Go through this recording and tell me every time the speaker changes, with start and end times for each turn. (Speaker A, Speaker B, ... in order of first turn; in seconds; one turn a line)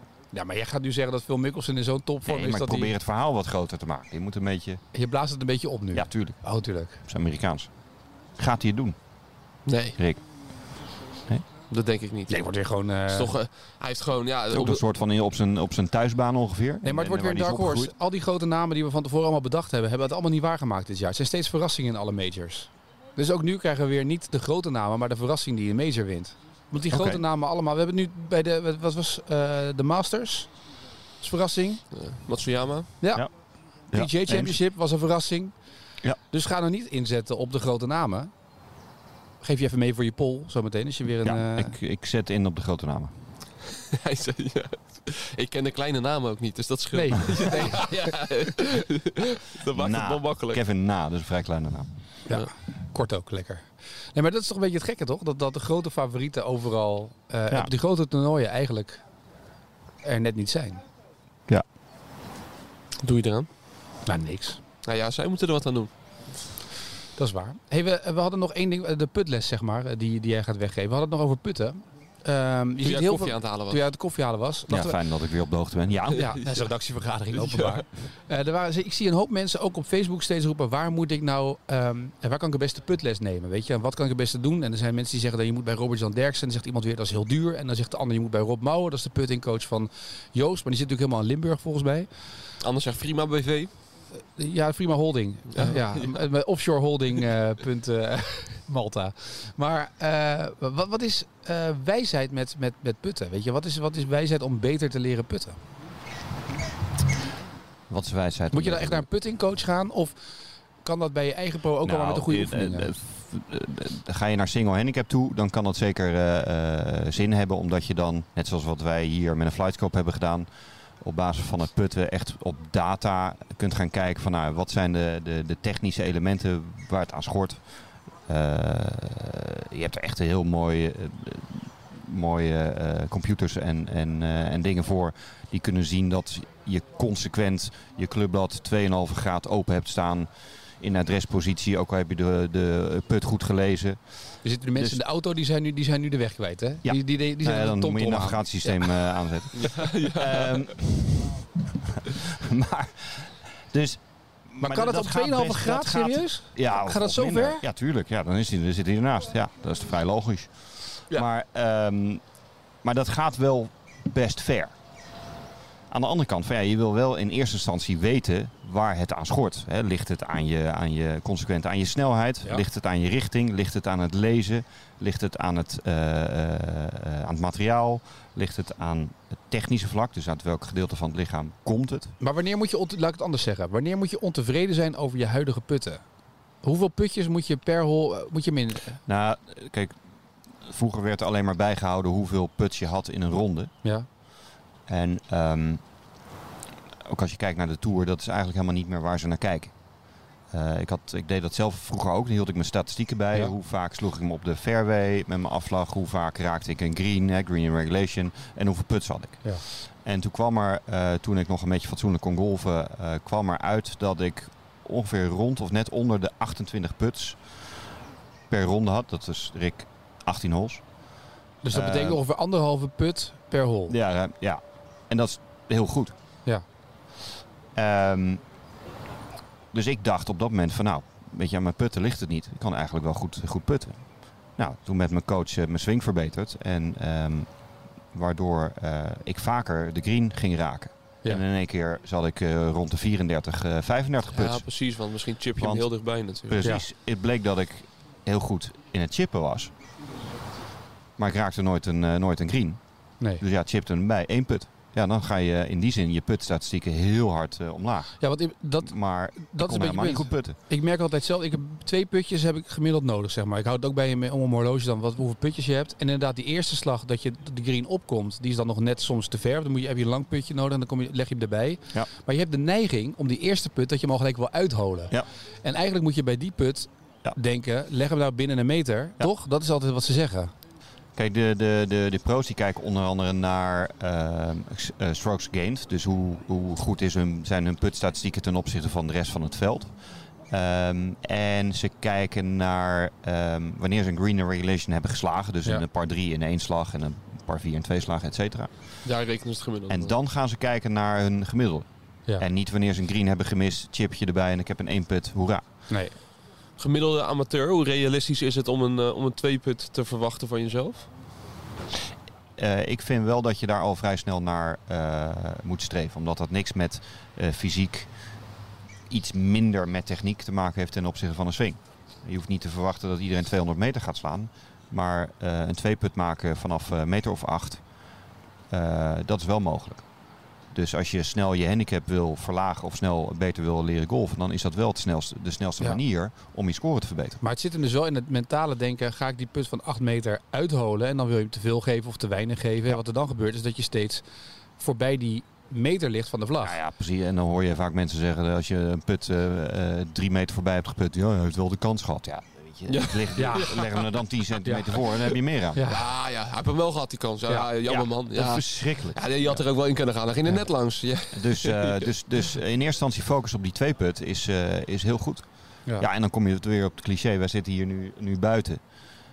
Speaker A: 0.3-2.9
Speaker B: 2.3-4.8
Speaker A: 4.9-7.0
Speaker B: 5.9-6.4
Speaker B: 7.0-7.7
Speaker B: 8.4-9.0
Speaker C: 9.7-10.0
Speaker C: 11.7-12.4
Speaker A: 12.3-13.3
Speaker C: 13.1-14.8
Speaker B: 14.5-17.9
Speaker A: 16.8-30.5
Speaker B: 26.9-27.2
Speaker A: 31.2-31.8
Speaker C: 31.9-32.9
Speaker A: 33.0-33.3
Speaker B: 33.9-34.6
Speaker A: 33.9-35.5
Speaker A: 36.3-38.3
Speaker A: 39.4-41.7
Speaker B: 41.2-43.1
Speaker C: 43.8-50.6
Speaker A: 46.9-48.4
Speaker B: 49.7-51.9
Speaker A: 52.3-59.0
Speaker A: 60.0-60.8
Speaker C: 63.0-63.5
Speaker A: 64.1-64.6
Speaker C: 64.8-65.9
Speaker A: 67.2-75.0
Speaker C: 72.8-73.8
Speaker B: 74.7-76.4
Speaker A: 76.2-92.1
Speaker C: 77.3-77.8
Speaker C: 92.6-93.7
Speaker A: 94.4-105.6
Speaker C: 95.5-96.2
Speaker B: 107.9-109.1
Speaker A: 108.5-110.2
Speaker A: 110.8-112.9
Speaker B: 111.8-120.5
Speaker B: 121.0-127.7
Speaker B: 128.3-140.3
Speaker B: 140.8-144.0
Speaker A: 144.4-149.0
Speaker B: 144.8-145.0
Speaker B: 146.8-162.2
Speaker C: 149.6-150.7
Speaker A: 154.6-157.6
Speaker B: 162.8-164.7
Speaker B: 165.9-182.2
Speaker A: 182.2-186.0
Speaker A: 186.6-189.0
Speaker B: 189.1-189.9
Speaker B: 190.6-193.7
Speaker B: 194.9-195.8
Speaker B: 197.1-199.7
Speaker B: 200.5-217.4
Speaker B: 218.5-220.8
Speaker A: 221.6-223.9
Speaker B: 221.7-222.2
Speaker B: 223.9-226.1
Speaker B: 227.8-228.4
Speaker B: 229.7-237.5
Speaker B: 238.1-244.7
Speaker C: 244.3-246.7
Speaker B: 245.6-245.9
Speaker B: 246.5-249.7
Speaker B: 251.2-252.8
Speaker B: 253.4-258.2
Speaker A: 258.2-280.5
Speaker B: 258.9-260.6
Speaker B: 281.2-289.9
Speaker B: 290.5-298.7
Speaker C: 299.1-300.1
Speaker B: 299.9-301.9
Speaker B: 302.4-305.6
Speaker A: 305.9-306.1
Speaker C: 306.8-311.1
Speaker B: 312.6-318.1
Speaker B: 319.1-327.8
Speaker B: 328.7-330.1
Speaker B: 330.7-337.4
Speaker A: 337.4-344.2
Speaker A: 344.8-346.8
Speaker B: 346.6-355.8
Speaker C: 352.9-354.1
Speaker A: 353.4-353.7
Speaker A: 354.6-355.0
Speaker A: 355.7-356.0
Speaker C: 355.9-362.1
Speaker B: 357.9-359.6
Speaker B: 361.3-368.8